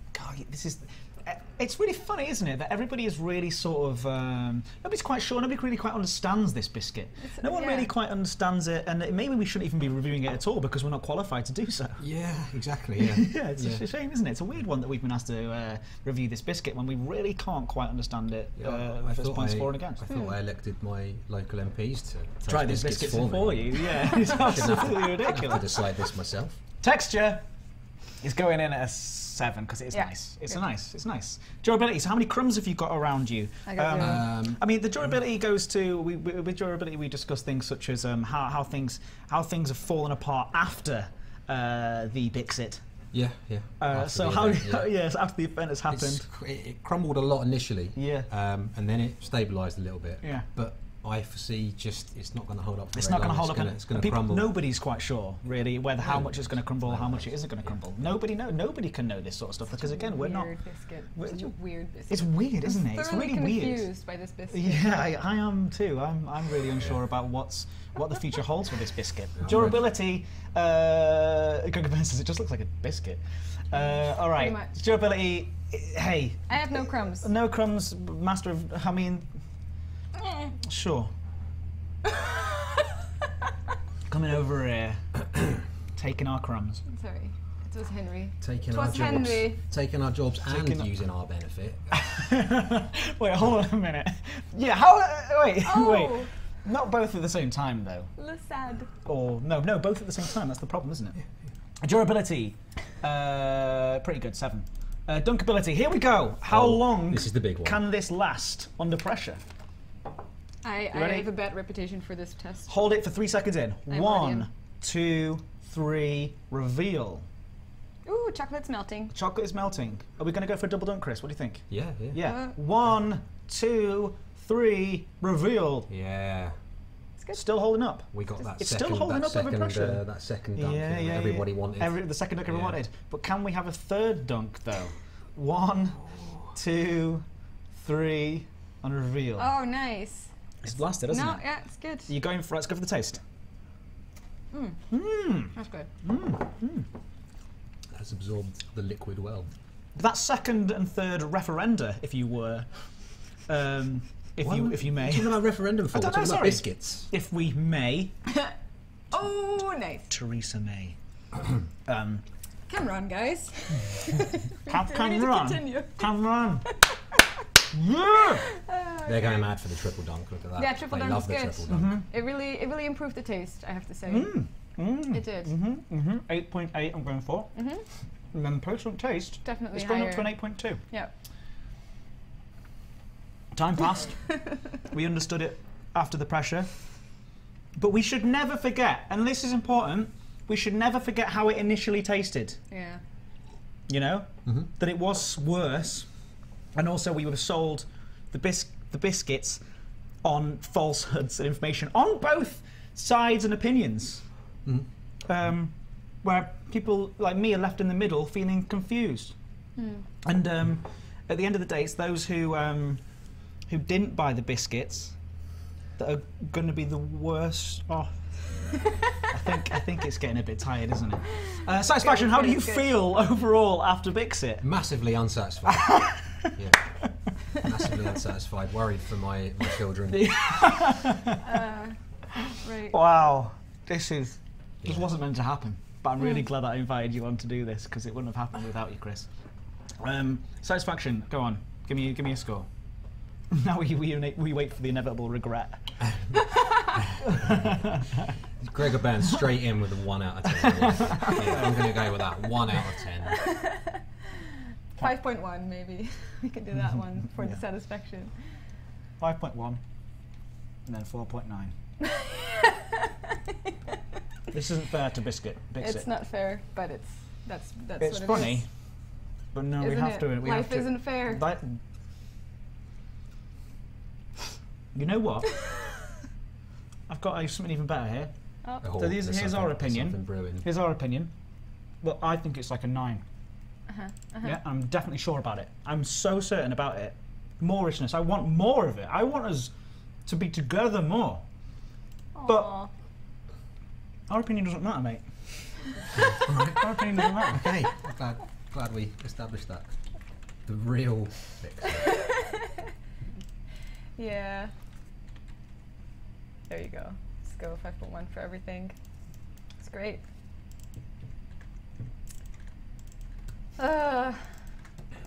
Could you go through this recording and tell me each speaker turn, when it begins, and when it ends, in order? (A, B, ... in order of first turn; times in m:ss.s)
0:00.1-0:12.0 A
0:07.3-0:07.9 B
0:12.0-0:13.8 C
0:13.0-0:20.1 A
0:18.6-0:26.6 C
0:20.1-0:20.3 B
0:22.5-0:25.8 A
0:26.8-0:27.4 A
0:28.2-0:42.8 A
0:29.9-0:30.6 B
0:33.7-0:34.2 B
0:34.0-0:34.6 C
0:43.1-0:44.9 C
0:43.8-0:46.3 A
0:45.9-0:54.6 C
0:47.9-0:48.3 A
0:50.2-0:50.5 A
0:52.9-1:00.6 A
0:56.0-0:58.1 C
0:59.8-1:05.0 B
1:01.1-1:01.5 A
1:02.1-1:03.9 A
1:04.5-1:19.3 A
1:09.4-1:09.8 C
1:14.2-1:14.7 B
1:16.5-1:17.3 B
1:20.6-1:21.1 A
1:24.1-1:25.1 A
1:25.9-1:26.8 A
1:26.9-1:29.6 B
1:28.4-1:32.0 C
1:30.5-1:30.9 A
1:31.9-1:38.1 A
1:35.6-1:36.3 B
1:38.2-1:38.9 B
1:39.0-1:41.2 A
1:41.8-1:49.4 A
1:46.5-1:47.8 C
1:50.6-1:52.7 B
1:50.9-1:51.3 A
1:52.7-1:57.2 A
1:53.9-1:54.5 B
1:58.0-1:59.1 B
1:59.1-2:05.9 A
2:01.7-2:02.2 C
2:02.2-2:02.5 B
2:05.9-2:06.6 C
2:07.3-2:10.0 A
2:08.1-2:12.8 C
2:10.5-2:19.5 A
2:19.4-2:20.3 B
2:20.6-2:21.4 A
2:21.1-2:22.1 B
2:22.1-2:23.2 A
2:24.5-2:24.8 B
2:24.9-2:26.9 A
2:25.5-2:25.9 B
2:27.9-2:29.5 C
2:29.9-2:38.3 A
2:34.4-2:37.1 C
2:39.1-2:40.1 B
2:40.1-2:41.0 A
2:41.8-2:42.2 A
2:42.7-2:46.1 B
2:44.6-2:46.7 A
2:46.7-2:47.2 B
2:47.7-2:48.5 A
2:48.5-2:49.5 B
2:49.0-2:52.0 C
2:50.6-2:54.3 B
2:51.7-2:52.0 A
2:54.0-2:57.6 A
2:55.1-2:55.5 B
2:57.6-2:57.8 B
2:58.3-3:00.8 A
2:59.4-3:01.1 B
3:03.5-3:06.8 A
3:07.8-3:12.6 A
3:12.7-3:13.0 B
3:13.9-3:16.1 A
3:16.7-3:19.6 A
3:20.2-3:24.2 A
3:25.2-3:29.4 A
3:29.8-3:30.0 B
3:30.2-3:33.0 A
3:33.7-3:35.2 A
3:36.0-3:38.6 A
3:39.3-3:44.6 A
3:42.0-3:43.0 B
3:44.6-3:50.9 C
3:45.8-3:46.5 A
3:50.1-3:51.4 A
3:51.4-3:53.0 B
3:52.9-3:59.3 A
3:54.8-3:55.1 C
4:00.0-4:02.7 A
4:03.5-4:06.4 A
4:07.2-4:07.7 C
4:07.2-4:08.2 A
4:08.6-4:13.5 C
4:10.6-4:12.0 A
4:13.4-4:14.0 B
4:15.0-4:18.4 B
4:17.2-4:17.6 A
4:19.2-4:19.8 A
4:20.8-4:21.7 A
4:22.0-4:23.4 B
4:24.5-4:26.1 A
4:25.8-4:28.6 B
4:28.0-4:28.7 A
4:29.5-4:31.8 A
4:29.8-4:31.4 B
4:34.9-4:35.6 A
4:37.1-4:41.3 A
4:38.8-4:40.7 C
4:42.0-4:43.2 A
4:43.9-4:44.5 B
4:44.4-4:49.7 A
4:50.2-4:51.4 A
4:52.3-4:52.9 B
4:52.4-4:52.8 A
4:54.3-4:58.0 A
4:56.3-4:57.0 C
4:57.5-5:00.0 C
5:00.6-5:02.2 C
5:01.9-5:02.8 B
5:04.2-5:04.7 B
5:06.7-5:08.9 B
5:09.8-5:10.2 B
5:13.8-5:14.6 B